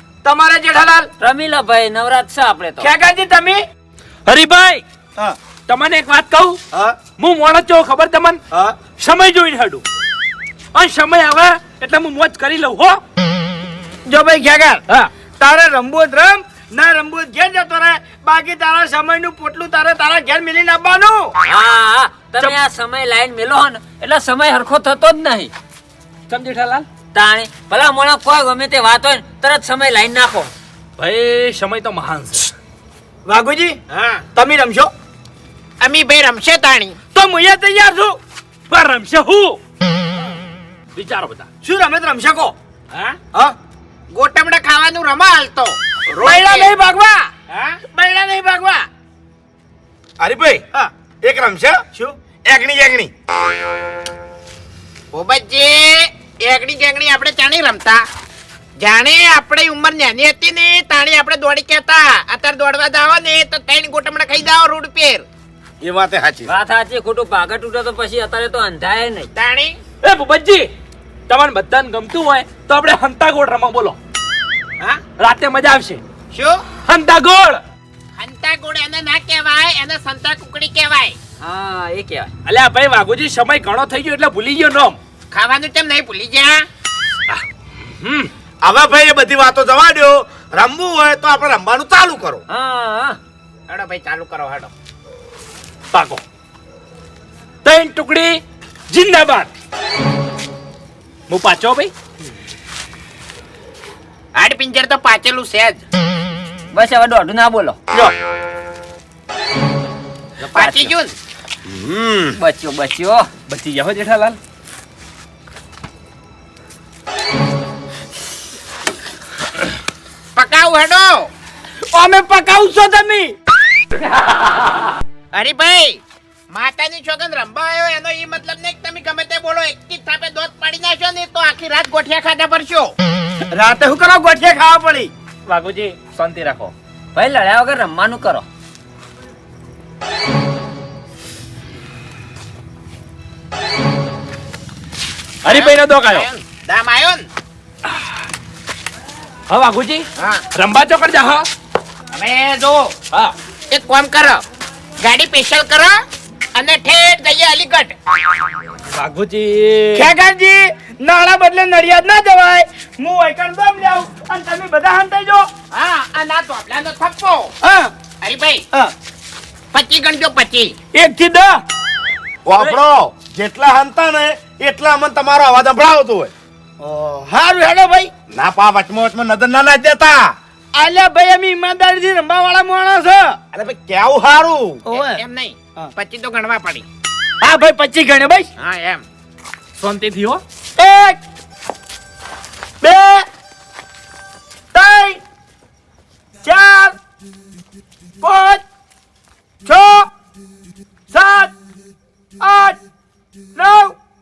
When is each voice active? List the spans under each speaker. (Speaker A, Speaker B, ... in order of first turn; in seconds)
Speaker A: 0.2-1.1, 2.8-3.6, 14.1-14.8, 15.4-21.3, 33.3-33.8, 34.3-34.9, 37.1-38.2, 41.6-42.5, 46.2-47.3, 48.0-48.8, 121.9-123.3, 133.5-135.1, 159.9-165.5, 167.6-167.9, 170.9-171.6, 176.8-178.1, 180.8-183.4, 184.8-185.2, 187.4-188.5, 190.8-191.2, 192.8-193.2, 194.7-195.2, 196.4-197.0, 198.2-198.6, 199.6-200.1, 201.1-201.5, 202.4-202.8, 203.5-204.0
Speaker B: 1.2-2.9, 21.4-25.5, 27.1-30.5, 66.5-69.3, 81.4-82.3, 92.5-93.2, 106.7-107.8, 112.3-113.3, 137.1-138.4
Speaker C: 4.3-4.8, 5.7-6.6, 7.2-8.4, 9.0-9.8, 10.7-13.0, 26.3-26.9, 31.0-32.5, 38.7-39.6, 40.9-41.5, 70.0-70.7, 71.3-74.0, 75.2-76.0, 76.8-77.6, 82.5-85.0, 87.3-88.3, 95.9-96.2, 97.6-99.5, 101.3-101.9, 113.5-114.4, 135.5-136.7, 145.4-146.3, 149.5-151.4, 158.9-160.1, 189.8-190.4
Speaker D: 33.9-34.2, 35.8-37.0, 42.9-43.2, 44.1-46.7, 47.5-48.0, 48.5-48.8, 55.1-58.0, 58.8-65.2, 69.3-69.8, 76.3-76.6, 78.2-81.2, 85.3-86.7, 93.7-94.7, 104.3-105.8, 110.4-111.1, 120.3-121.3, 125.3-132.9, 145.4-147.3, 150.2-150.4, 152.1-152.9, 153.7-154.4, 155.0-156.0, 156.5-157.9, 165.7-167.5, 168.2-168.7, 169.7-170.7, 184.9-186.8, 188.6-189.0
Speaker E: 50.2-50.6, 51.2-51.8, 52.5-53.1, 65.8-66.5, 88.6-92.4, 110.5-110.9, 111.7-112.3, 172.4-176.3, 178.3-180.3, 183.5-184.8